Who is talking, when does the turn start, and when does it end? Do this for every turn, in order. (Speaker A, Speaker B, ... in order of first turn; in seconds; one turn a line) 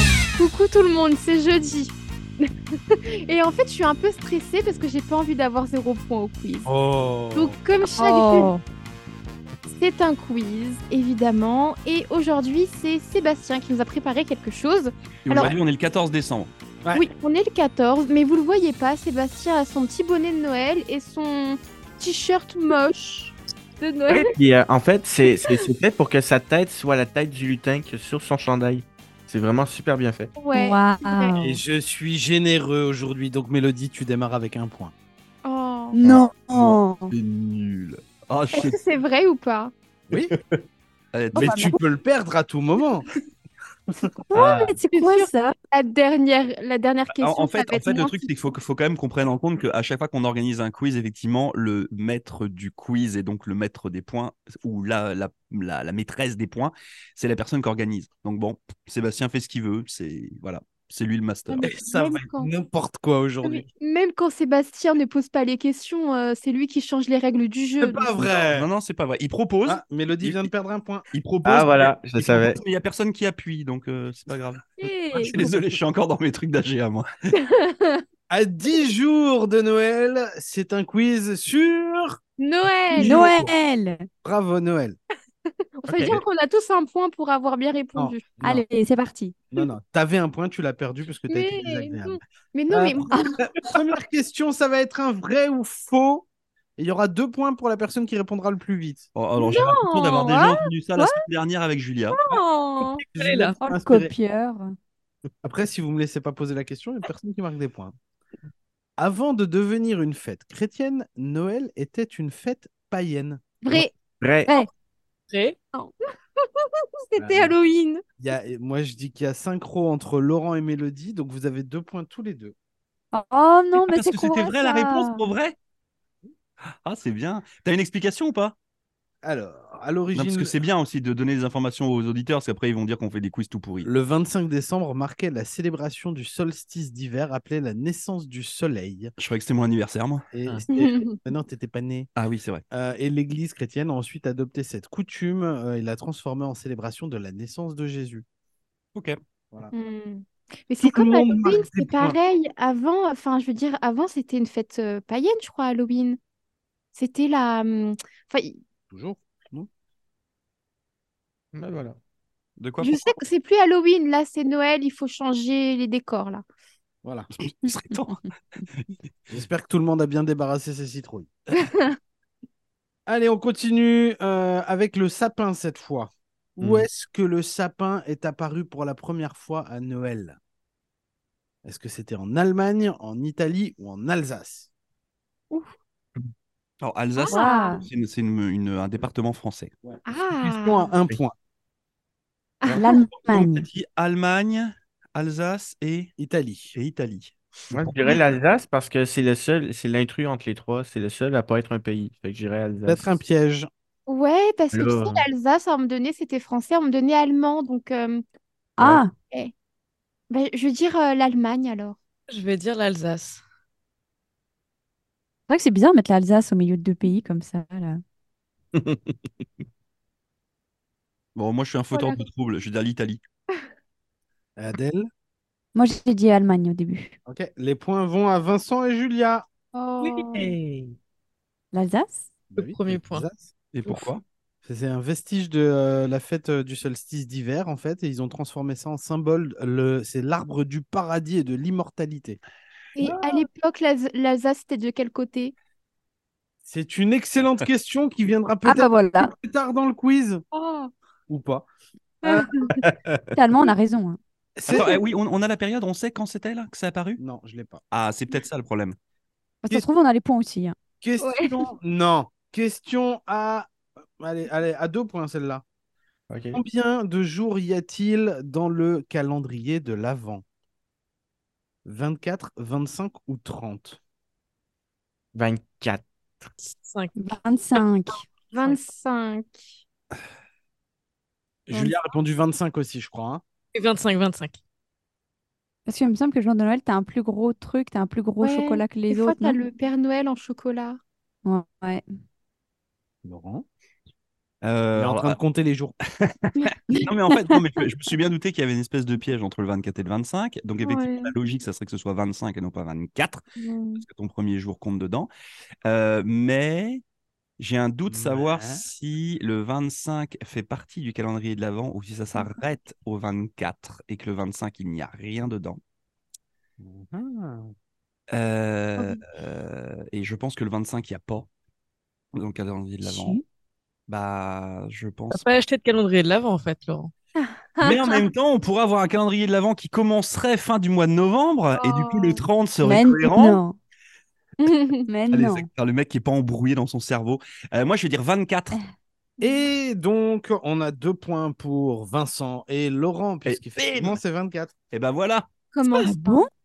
Speaker A: 0.4-6.7
Speaker B: 6.7-7.5
Speaker A: 7.3-8.5
Speaker C: 7.8-8.6
Speaker A: 9.7-15.5
Speaker D: 15.2-16.5
Speaker A: 16.9-24.4
Speaker E: 24.1-30.3
Speaker A: 30.4-31.4
Speaker C: 30.5-31.6
Speaker B: 31.4-34.9
Speaker A: 35.4-36.0
Speaker C: 35.9-37.1
Speaker D: 36.0-38.8
Speaker A: 38.5-39.7
Speaker E: 40.1-40.6
Speaker D: 41.1-41.8
Speaker B: 41.4-43.0
Speaker C: 41.4-41.8
Speaker C: 44.3-45.5
Speaker E: 44.3-44.8
Speaker A: 44.9-48.3
Speaker D: 47.1-61.7
Speaker A: 61.5-62.5
Speaker B: 61.6-63.6
Speaker A: 63.4-68.2
Speaker B: 67.8-68.7
Speaker D: 68.2-70.5
Speaker B: 69.6-71.0
Speaker D: 71.1-77.1
Speaker E: 71.4-72.6
Speaker A: 74.8-75.4
Speaker A: 77.3-78.0
Speaker B: 78.3-82.2
Speaker A: 82.4-83.3
Speaker B: 82.9-83.5
Speaker C: 83.0-84.1
Speaker B: 84.2-85.0
Speaker A: 85.8-88.3
Speaker B: 88.0-88.6
Speaker C: 88.4-89.3
Speaker B: 89.5-92.2
Speaker A: 91.3-93.2
Speaker B: 92.7-96.2
Speaker B: 96.8-99.1
Speaker D: 99.1-102.3
Speaker A: 99.3-100.6
Speaker A: 102.1-103.0
Speaker F: 103.1-103.5
Speaker B: 103.1-104.1
Speaker C: 103.6-104.8
Speaker B: 105.4-107.9
Speaker B: 109.0-113.5
Speaker A: 113.6-113.9
Speaker E: 113.7-114.5
Speaker F: 115.3-115.5
Speaker A: 115.7-118.0
Speaker B: 117.2-117.5
Speaker B: 118.2-122.5
Speaker C: 123.1-125.2
Speaker D: 123.8-125.5
Speaker D: 126.7-128.6
Speaker B: 129.2-130.5
Speaker D: 130.1-133.9
Speaker B: 133.8-139.1
Speaker D: 139.2-140.2
Speaker B: 140.3-142.1
Speaker A: 140.7-141.2
Speaker D: 142.2-142.6
Speaker B: 142.7-148.2
Speaker A: 149.7-156.2
Speaker B: 150.8-152.2
Speaker A: 156.9-158.6
Speaker B: 158.9-159.7
Speaker E: 161.5-162.0
Speaker D: 162.6-163.2
Speaker A: 162.8-166.4
Speaker D: 167.4-168.2
Speaker C: 167.6-167.9
Speaker B: 169.3-171.3
Speaker A: 171.5-171.9
Speaker B: 173.1-180.4
Speaker E: 176.6-176.9
Speaker B: 181.6-184.7
Speaker D: 186.8-189.7
Speaker A: 187.1-187.8
Speaker C: 187.3-187.8
Speaker B: 189.9-191.3
Speaker A: 190.1-190.9
Speaker A: 192.6-193.0
Speaker C: 192.7-193.7
Speaker D: 193.2-196.1
Speaker B: 196.2-196.7
Speaker D: 196.7-198.2
Speaker E: 197.7-203.1
Speaker B: 202.8-203.7
Speaker A: 204.1-208.2
Speaker E: 204.7-205.2
Speaker C: 208.8-209.1
Speaker A: 209.2-209.5
Speaker A: 210.3-212.0
Speaker F: 212.3-213.4
Speaker C: 215.5-218.0
Speaker E: 218.7-219.3
Speaker D: 221.3-223.2
Speaker A: 221.9-222.2
Speaker B: 224.6-225.1
Speaker C: 225.7-227.2
Speaker B: 227.2-229.5
Speaker A: 229.7-230.5
Speaker F: 230.0-230.4
Speaker B: 230.4-230.9
Speaker C: 231.7-232.3
Speaker B: 232.5-233.5
Speaker F: 232.6-233.3
Speaker D: 233.7-234.2
Speaker B: 234.6-242.4
Speaker A: 242.9-245.5
Speaker B: 243.0-243.4
Speaker B: 246.6-250.4
Speaker C: 248.6-249.3
Speaker A: 250.5-250.9
Speaker B: 251.3-251.7
Speaker B: 252.2-252.5
Speaker A: 252.2-252.8
Speaker E: 252.8-253.3
Speaker C: 253.3-254.2
Speaker B: 254.6-255.0
Speaker D: 254.7-257.2
Speaker B: 257.2-257.8
Speaker D: 257.9-258.9
Speaker C: 259.6-260.8
Speaker B: 261.0-265.6
Speaker A: 261.2-261.7
Speaker E: 266.3-266.6
Speaker B: 266.5-270.4
Speaker B: 271.8-274.0
Speaker E: 275.3-276.0
Speaker F: 276.6-277.1
Speaker C: 277.1-278.2
Speaker A: 278.5-279.6
Speaker B: 281.7-283.4
Speaker A: 281.7-281.9
Speaker F: 283.7-284.6
Speaker C: 285.9-289.6
Speaker A: 288.4-291.0
Speaker C: 291.4-292.0
Speaker B: 293.2-293.6
Speaker D: 294.6-295.4
Speaker B: 294.9-295.9
Speaker D: 296.1-303.4
Speaker A: 296.6-297.0
Speaker A: 300.8-301.3
Speaker A: 303.6-304.0
Speaker D: 304.0-305.3
Speaker D: 305.8-307.0
Speaker D: 307.6-315.8
Speaker B: 308.1-308.8
Speaker B: 316.8-317.7
Speaker D: 318.3-321.5
Speaker D: 322.3-323.4
Speaker C: 323.0-323.4
Speaker D: 324.1-325.4
Speaker F: 325.3-327.1
Speaker A: 327.4-328.2
Speaker D: 327.8-333.6
Speaker A: 331.7-332.4
Speaker C: 332.8-333.8
Speaker A: 334.6-335.1
Speaker C: 335.1-335.7
Speaker D: 335.3-338.8
Speaker A: 339.4-339.6
Speaker B: 339.4-344.7
Speaker D: 343.4-344.2
Speaker D: 344.9-345.5
Speaker A: 345.7-346.5
Speaker C: 346.0-346.5